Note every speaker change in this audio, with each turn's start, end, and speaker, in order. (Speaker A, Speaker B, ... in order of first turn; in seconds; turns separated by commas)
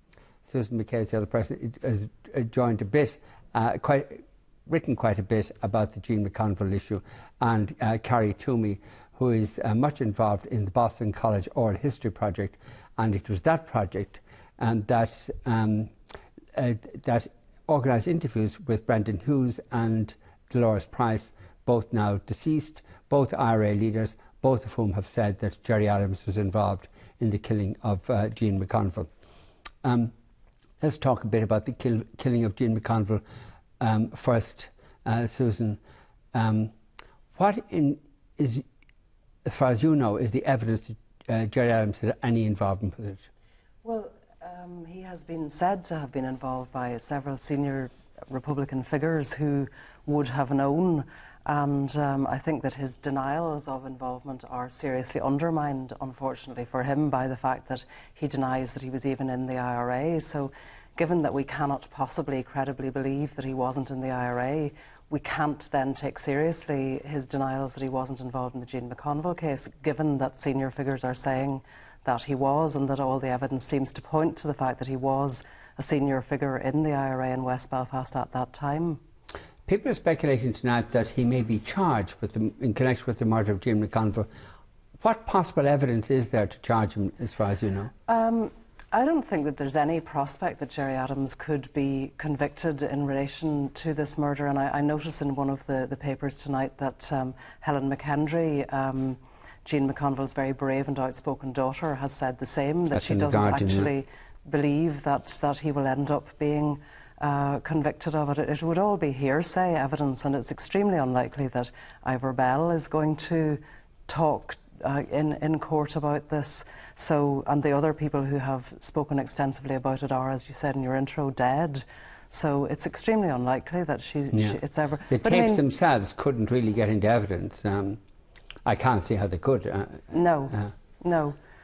Speaker A: 0.5-15.9, Speaker A: 16.6-29.1, Speaker A: 29.8-30.1, Speaker A: 30.8-33.2, Speaker A: 33.8-35.8, Speaker A: 36.3-36.7, Speaker A: 37.4-38.6, Speaker A: 39.5-43.3, Speaker B: 43.8-79.0, Speaker A: 79.7-84.3, Speaker A: 85.0-87.9, Speaker B: 88.1-125.6, Speaker A: 102.9-103.9, Speaker A: 124.3-124.6, Speaker A: 125.1-128.0, Speaker A: 128.7-130.7, Speaker B: 130.1-131.4